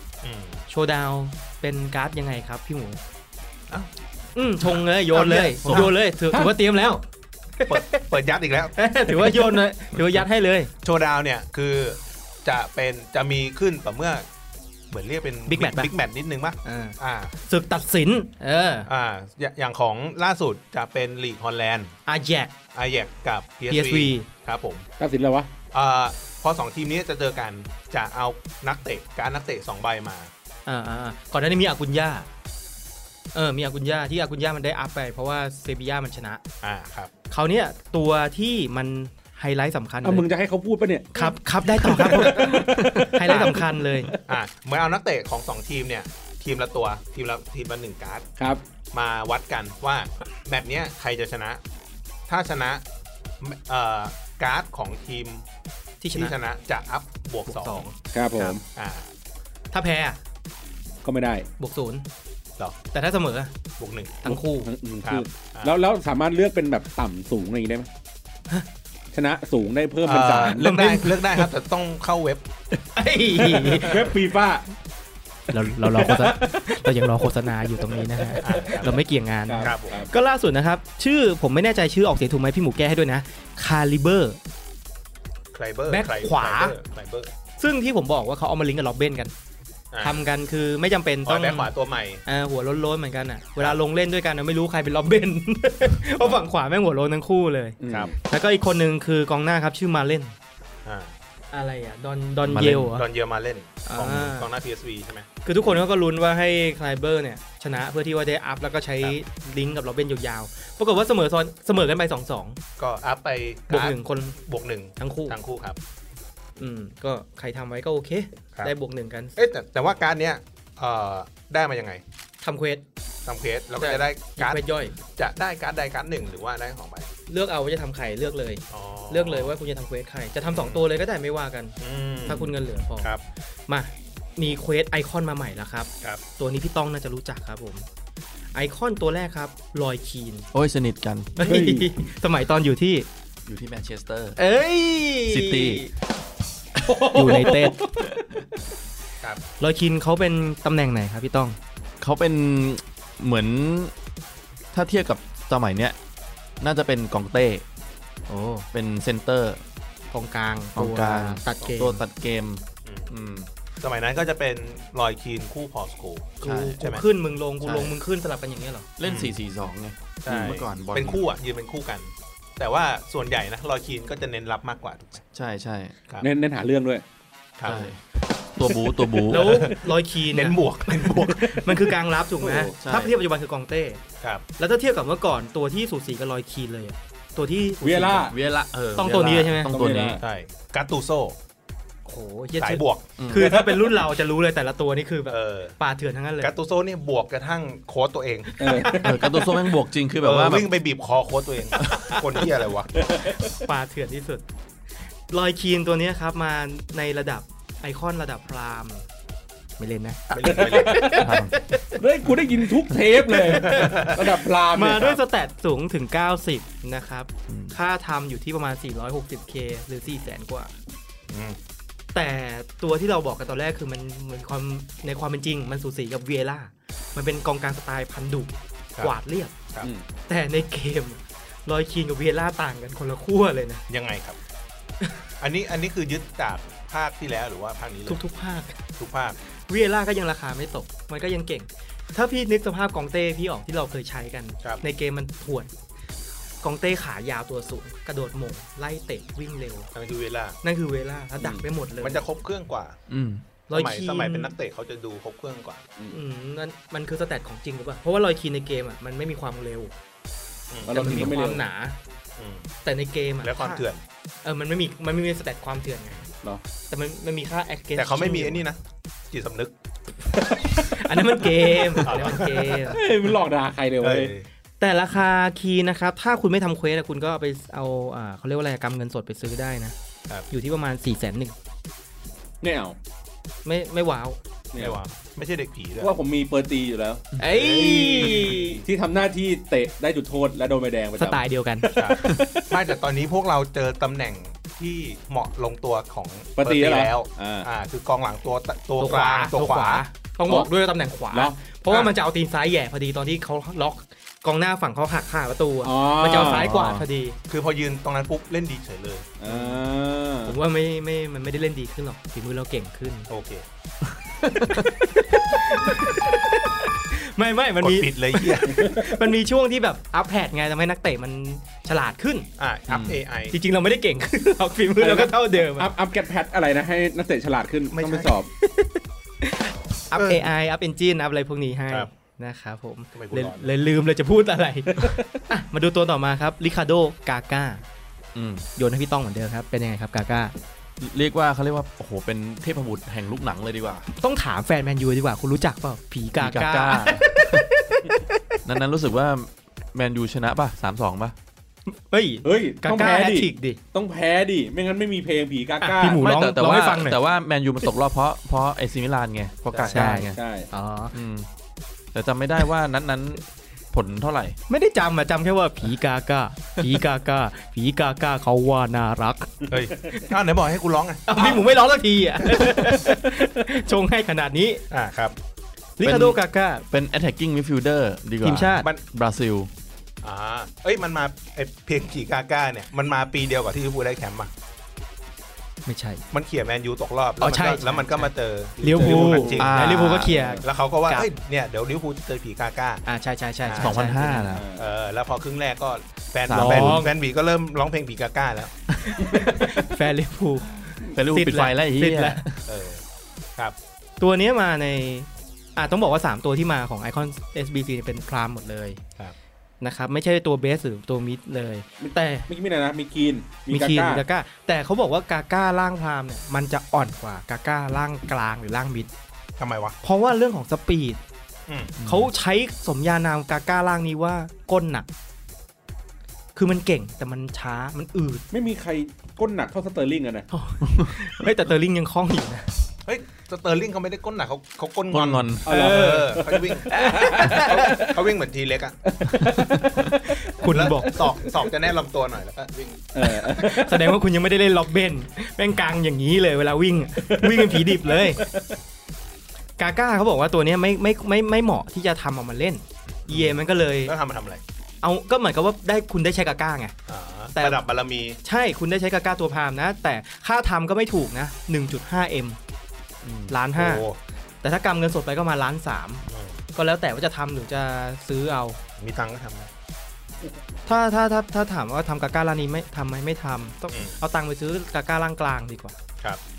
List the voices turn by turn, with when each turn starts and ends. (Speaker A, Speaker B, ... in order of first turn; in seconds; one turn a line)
Speaker A: 0.2-0.6
Speaker B: 0.7-3.0
Speaker B: 4.3-7.0
Speaker A: 4.6-5.9
Speaker C: 5.6-6.5
Speaker B: 7.6-8.1
Speaker A: 7.7-8.8
Speaker B: 8.7-10.7
Speaker A: 10.8-14.3
Speaker A: 14.9-17.4
Speaker B: 15.5-15.9
Speaker B: 16.6-18.9
Speaker A: 18.9-21.9
Speaker B: 22.1-22.5
Speaker A: 22.7-24.9
Speaker B: 23.7-24.3
Speaker C: 25.0-25.5
Speaker A: 25.7-30.3
Speaker B: 30.6-32.3
Speaker B: 33.3-36.4
Speaker A: 36.6-37.1
Speaker B: 37.3-40.2
Speaker C: 40.0-44.4
Speaker B: 41.1-44.1
Speaker A: 42.0-42.7
Speaker A: 43.2-43.5
Speaker A: 44.3-48.2
Speaker A: 48.9-51.6
Speaker A: 52.3-52.8
Speaker A: 53.4-55.4
Speaker B: 56.0-56.3
Speaker A: 56.1-59.1
Speaker B: 57.4-58.5
Speaker C: 58.1-58.6
Speaker B: 59.7-60.2
Speaker C: 61.0-61.5
Speaker B: 61.6-62.1
Speaker B: 62.9-63.5
Speaker A: 63.8-64.3
Speaker B: 64.2-64.7
Speaker C: 64.6-67.9
Speaker A: 65.0-65.7
Speaker C: 69.1-70.7
Speaker A: 70.0-72.5
Speaker B: 70.5-71.5
Speaker B: 72.9-74.1
Speaker A: 73.4-74.1
Speaker C: 73.8-74.6
Speaker B: 75.5-84.4
Speaker C: 75.8-78.9
Speaker A: 78.4-79.0
Speaker C: 79.5-80.1
Speaker A: 79.6-80.0
Speaker A: 85.5-87.3
Speaker B: 85.9-86.8
Speaker B: 87.6-89.3
Speaker A: 89.9-90.2
Speaker B: 90.0-91.7
Speaker A: 91.2-92.2
Speaker B: 92.2-100.3
Speaker C: 97.8-98.1
Speaker A: 100.8-101.1
Speaker B: 101.5-103.0
Speaker D: 102.4-103.0
Speaker A: 102.8-105.3
Speaker B: 103.8-104.5
Speaker B: 105.4-112.6
Speaker A: 112.8-115.8
Speaker B: 113.7-114.4
Speaker B: 115.0-115.3
Speaker B: 116.6-119.4
Speaker A: 119.3-122.0
Speaker B: 122.4-122.8
Speaker A: 123.2-124.6
Speaker B: 123.8-124.9
Speaker A: 125.2-127.1
Speaker B: 127.3-133.1
Speaker A: 128.7-129.5
Speaker A: 130.5-130.8
Speaker A: 131.8-133.2
Speaker B: 133.7-137.8
Speaker B: 138.5-140.5
Speaker D: 140.5-141.3
Speaker B: 141.3-143.1
Speaker C: 141.4-141.9
Speaker D: 143.4-144.4
Speaker B: 144.4-145.9
Speaker D: 145.2-145.8
Speaker D: 146.8-148.2
Speaker C: 146.8-148.2
Speaker B: 147.1-147.8
Speaker B: 149.6-151.6
Speaker D: 152.0-153.9
Speaker D: 154.7-156.0
Speaker D: 156.6-157.6
Speaker B: 158.3-158.7
Speaker D: 158.7-159.6
Speaker B: 160.1-162.0
Speaker D: 160.8-163.5
Speaker A: 162.8-163.1
Speaker A: 163.8-167.0
Speaker B: 166.4-168.9
Speaker D: 166.4-166.8
Speaker D: 167.6-167.9
Speaker D: 169.0-171.2
Speaker A: 169.0-169.4
Speaker A: 170.2-175.2
Speaker D: 175.3-175.9
Speaker C: 176.2-177.0
Speaker A: 177.6-177.9
Speaker D: 177.6-178.0
Speaker D: 178.5-179.7
Speaker B: 179.3-184.0
Speaker A: 179.3-179.7
Speaker A: 180.3-181.8
Speaker D: 182.4-183.2
Speaker B: 184.6-188.3
Speaker C: 187.8-188.3
Speaker D: 188.3-190.2
Speaker B: 188.9-189.7
Speaker C: 189.7-190.2
Speaker A: 190.2-191.3
Speaker B: 192.1-196.5
Speaker A: 192.6-193.1
Speaker D: 193.2-193.5
Speaker C: 193.3-194.0
Speaker A: 195.3-195.7
Speaker A: 196.4-198.6
Speaker C: 198.6-199.1
Speaker B: 198.6-199.7
Speaker D: 199.0-200.7
Speaker A: 200.2-202.9
Speaker D: 201.8-202.2
Speaker C: 202.9-203.6
Speaker B: 203.6-204.4
Speaker B: 205.3-209.1
Speaker B: 209.8-212.0
Speaker A: 210.3-211.2
Speaker C: 210.4-211.3
Speaker D: 211.2-211.7
Speaker C: 211.9-215.2
Speaker B: 213.3-214.1
Speaker A: 213.6-214.3
Speaker B: 214.7-220.7
Speaker D: 217.5-217.8
Speaker A: 221.3-221.6
Speaker B: 222.1-229.5
Speaker C: 229.8-230.1
Speaker B: 230.3-233.8
Speaker A: 233.9-234.4
Speaker A: 235.4-238.2
Speaker B: 238.1-238.8
Speaker A: 239.0-239.4
Speaker B: 239.7-245.7
Speaker B: 246.6-249.9
Speaker A: 249.9-250.6
Speaker B: 250.6-252.2
Speaker A: 252.0-253.0
Speaker D: 253.1-253.4
Speaker B: 253.7-254.5
Speaker A: 253.7-255.9
Speaker B: 256.1-259.9
Speaker A: 260.7-261.3
Speaker C: 260.8-261.6
Speaker B: 260.9-262.0
Speaker A: 262.4-262.7
Speaker B: 262.8-263.9
Speaker A: 263.4-264.0
Speaker B: 264.4-266.2
Speaker B: 266.9-268.6
Speaker A: 267.9-268.8
Speaker A: 269.3-269.7
Speaker B: 270.6-273.0
Speaker C: 271.4-274.3
Speaker A: 272.0-273.0
Speaker A: 274.0-274.5
Speaker B: 274.8-279.9
Speaker B: 280.5-281.5
Speaker C: 282.6-282.9
Speaker B: 283.6-284.4
Speaker C: 284.7-285.0
Speaker A: 284.8-286.1
Speaker C: 286.0-292.4
Speaker B: 287.4-288.8
Speaker B: 291.2-292.4
Speaker A: 291.9-300.0
Speaker D: 292.2-292.4
Speaker C: 296.6-297.7
Speaker B: 299.0-307.4
Speaker A: 301.9-302.1
Speaker C: 305.8-306.9
Speaker D: 306.4-307.0
Speaker A: 307.5-309.3
Speaker C: 309.4-310.6
Speaker B: 309.4-309.8
Speaker B: 310.4-313.3
Speaker A: 313.3-313.6
Speaker B: 314.4-322.5
Speaker A: 317.8-318.9
Speaker C: 318.7-319.0
Speaker A: 322.6-323.6
Speaker D: 322.9-323.2
Speaker B: 323.5-325.9
Speaker C: 325.0-328.5
Speaker A: 327.9-328.3
Speaker B: 328.6-337.8
Speaker A: 330.1-330.5
Speaker A: 333.1-333.7
Speaker C: 334.9-335.4
Speaker D: 338.3-338.7
Speaker B: 338.8-340.5
Speaker D: 341.0-344.1
Speaker B: 344.2-348.5
Speaker D: 346.4-347.7
Speaker D: 348.6-351.3
Speaker B: 351.9-353.8
Speaker C: 352.4-356.2
Speaker B: 355.8-357.2
Speaker D: 356.1-360.4
Speaker A: 359.7-360.0
Speaker B: 359.9-361.1
Speaker C: 360.3-360.7
Speaker D: 361.1-361.5
Speaker D: 362.1-364.6
Speaker B: 364.7-369.5
Speaker A: 369.7-371.6
Speaker B: 371.3-374.8
Speaker A: 374.9-375.4
Speaker B: 376.0-376.8
Speaker D: 376.0-376.4
Speaker D: 376.9-379.7
Speaker B: 378.4-378.9
Speaker A: 380.2-384.5
Speaker B: 385.9-386.2
Speaker A: 386.3-389.8
Speaker B: 387.4-391.3
Speaker C: 389.0-389.6
Speaker D: 389.5-390.4
Speaker C: 390.3-390.6
Speaker A: 390.6-393.0
Speaker B: 393.0-394.5
Speaker A: 393.6-394.0
Speaker D: 393.8-394.6
Speaker C: 394.5-394.9
Speaker A: 394.7-398.7
Speaker D: 396.5-397.0
Speaker B: 396.5-397.1
Speaker B: 399.0-402.4
Speaker D: 401.1-402.6
Speaker A: 402.7-403.0
Speaker B: 404.2-409.0
Speaker B: 409.8-412.5
Speaker C: 412.0-414.2
Speaker B: 413.7-419.1
Speaker A: 419.6-420.0
Speaker B: 420.0-421.2
Speaker A: 421.7-421.9
Speaker D: 422.0-422.3
Speaker B: 422.0-425.1
Speaker B: 426.5-428.4
Speaker C: 428.5-430.5
Speaker B: 430.5-432.7
Speaker D: 430.9-431.1
Speaker A: 433.1-439.0
Speaker D: 435.1-435.7
Speaker C: 435.6-438.2
Speaker B: 436.9-438.0
Speaker C: 439.1-440.9
Speaker B: 439.8-441.3
Speaker A: 440.6-443.6
Speaker C: 443.1-444.2
Speaker B: 443.5-448.5
Speaker C: 447.2-448.8
Speaker B: 449.8-454.1
Speaker A: 454.0-454.6
Speaker B: 455.0-456.9
Speaker A: 457.1-458.4
Speaker B: 458.4-462.6
Speaker D: 463.2-463.5
Speaker B: 463.5-464.0
Speaker A: 463.8-464.2
Speaker B: 464.6-466.2
Speaker A: 466.3-466.6
Speaker B: 466.7-468.8
Speaker A: 469.0-469.7
Speaker B: 470.9-476.0
Speaker A: 473.9-474.2